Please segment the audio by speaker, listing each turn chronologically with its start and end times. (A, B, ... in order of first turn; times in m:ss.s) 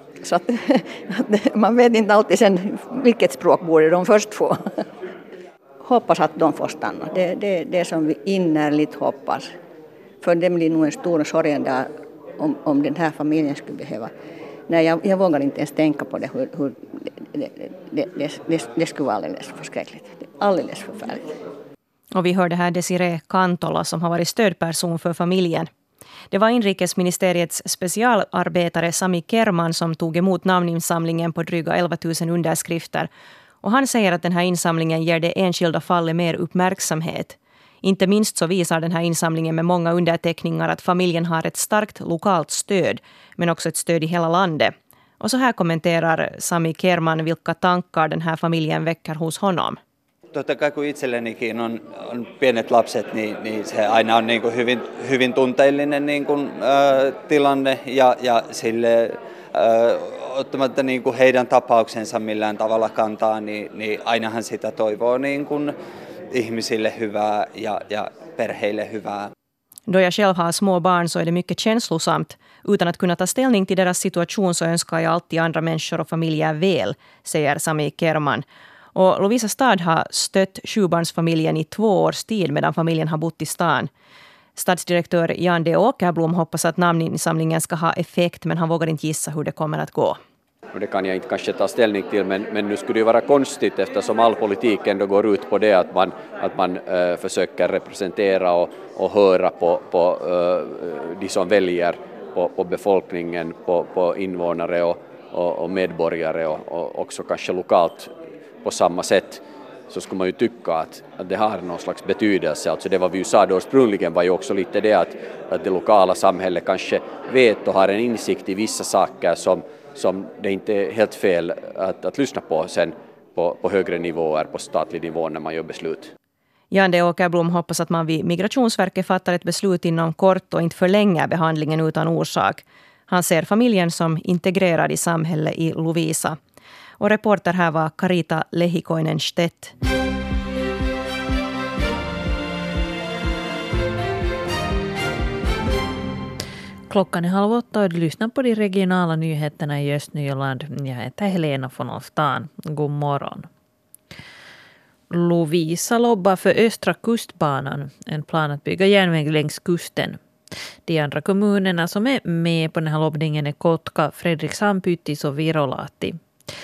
0:00.2-0:04.6 A
0:05.8-0:09.5 A
0:10.2-0:11.9 A
0:12.4-0:14.1 A
0:14.7-0:16.7 A
0:17.3-0:21.3 A
0:22.1-0:25.7 B
0:26.3-0:33.1 B
0:33.6-0:49.8 B
0:50.3-1:05.7 C
1:06.3-1:09.3 C
1:09.9-1:23.9 B
1:24.6-1:30.2 B
1:30.7-1:48.1 D
1:48.6-2:06.1 D
2:06.7-2:16.4 B
2:17.0-2:19.7 B
2:26.9-2:33.5 E
2:35.1-2:40.2 E
2:40.8-2:46.2 E